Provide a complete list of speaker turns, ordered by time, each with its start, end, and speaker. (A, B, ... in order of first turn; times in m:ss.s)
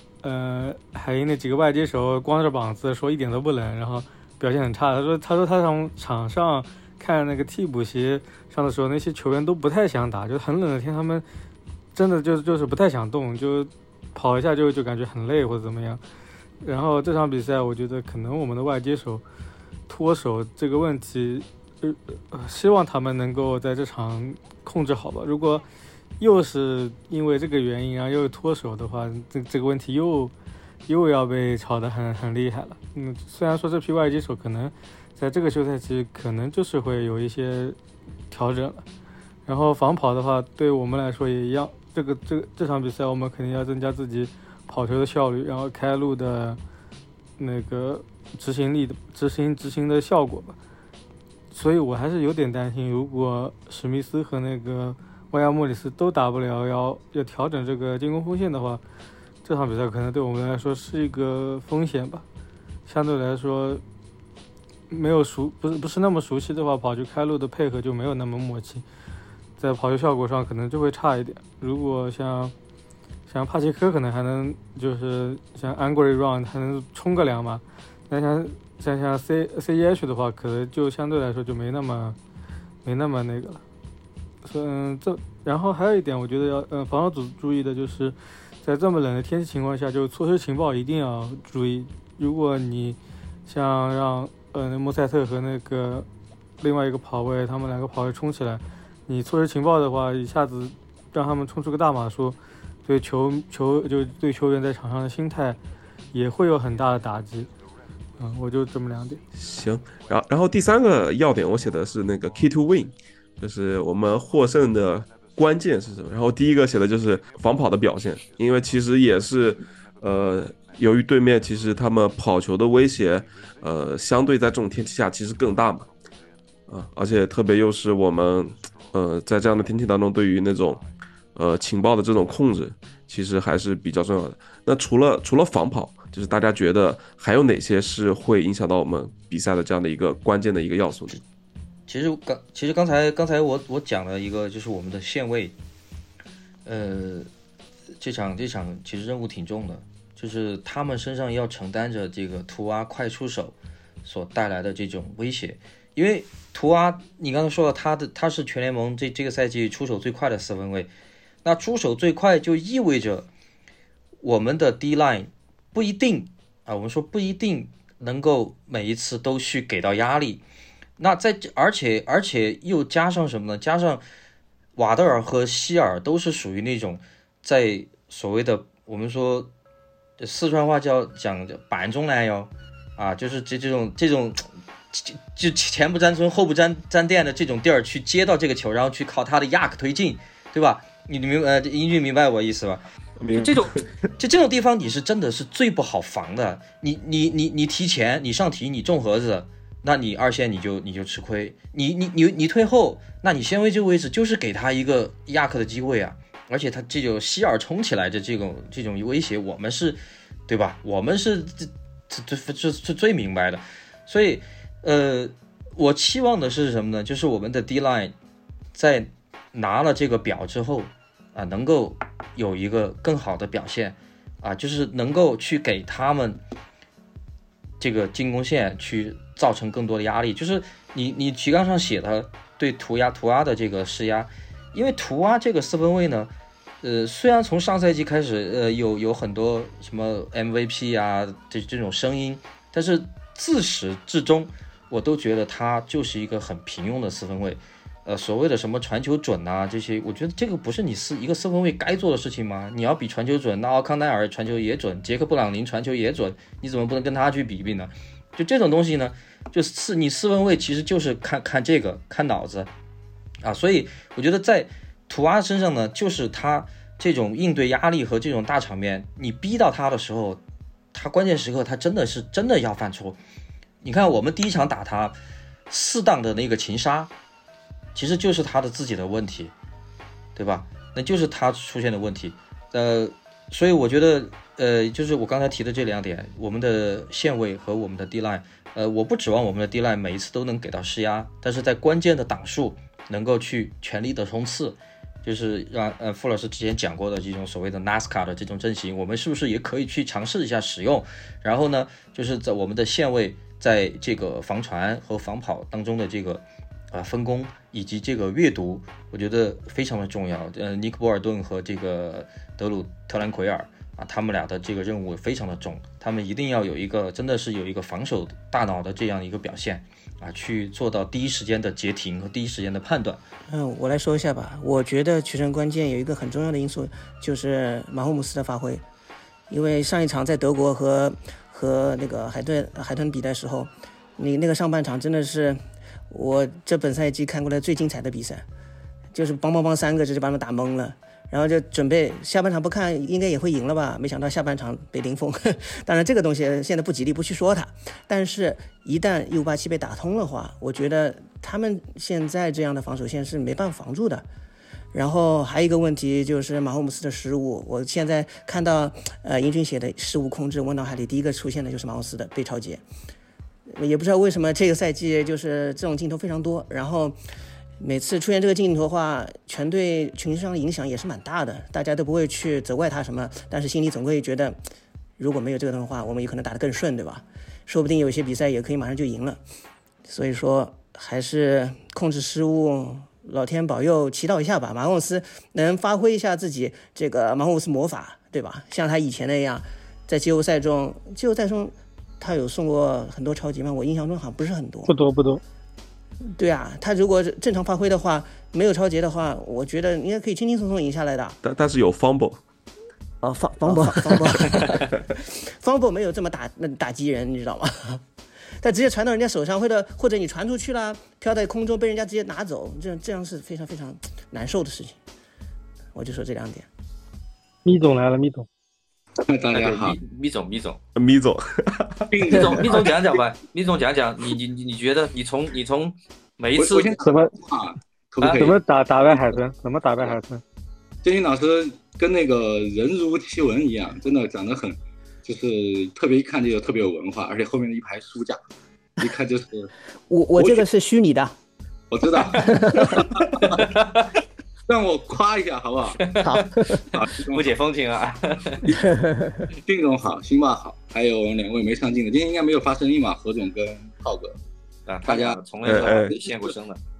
0:00.2-0:11.2 A
0:11.9-0:16.0 A
0:16.6-0:19.2 A
0:19.9-0:25.6 A
0:26.2-0:30.3 A
0:30.9-0:37.8 A
0:38.3-0:38.8 A
0:39.4-0:46.6 A
0:47.4-0:50.6 A
0:51.5-0:58.8 A
0:59.4-1:02.2 A
1:02.9-1:03.8 A
1:04.9-1:08.8 A
1:09.6-1:12.5 A
1:13.3-1:22.2 A
1:22.8-1:23.6 A
1:24.4-1:36.1 A
1:36.6-1:45.6 A
1:46.1-1:47.5 A
1:48.2-1:49.2 A
1:49.3-2:05.9 B
2:06.7-2:10.8 B
2:11.4-2:21.2 B
2:21.9-2:25.5 C
2:26.6-2:27.3 C
2:28.0-2:40.9 C
2:41.4-2:43.3 C
2:44.2-2:50.4 C
2:51.0-2:54.0 C
2:54.8-2:59.5 C
3:00.2-3:12.8 C
3:13.2-3:13.8 B
3:13.3-3:13.6 C
3:14.2-3:38.1 C
3:38.7-3:46.4 C
3:47.8-3:56.3 C
3:56.8-4:22.7 C
4:23.4-4:30.4 C
4:30.9-4:33.2 C
4:33.8-4:35.2 C
4:35.7-4:37.1 C
4:37.9-4:39.5 C
4:40.4-5:23.2 C
5:23.5-5:28.8 D
5:29.5-5:38.4 D
5:39.1-5:54.2 D
5:54.9-6:02.8 D
6:03.7-6:07.2 D
6:07.8-6:14.6 D
6:15.2-6:19.4 D
6:20.0-6:34.9 D
6:34.9-6:35.4 E
6:36.3-6:41.4 D
6:41.4-6:42.4 B
6:43.2-6:48.0 D
6:48.6-6:55.0 D
6:55.9-6:56.7 D
6:57.6-6:58.5 E
6:59.2-7:00.0 F
6:59.5-7:00.8 G
7:01.0-7:02.1 B
7:02.1-7:02.9 F
7:02.2-7:06.9 G
7:06.6-7:09.4 F
7:07.0-7:07.3 E
7:08.3-7:10.4 E
7:11.0-7:18.4 F
7:19.0-7:19.7 F
7:20.1-7:21.4 D
7:20.4-7:20.6 F
7:21.9-7:23.6 F
7:22.2-7:22.5 G
7:22.4-7:22.8 D
7:23.3-7:24.1 G
7:24.7-7:26.4 F
7:26.0-7:28.7 G
7:26.9-7:27.5 F
7:29.6-7:34.4 F
7:34.9-7:36.8 G
7:35.0-7:36.3 F
7:35.6-7:36.1 B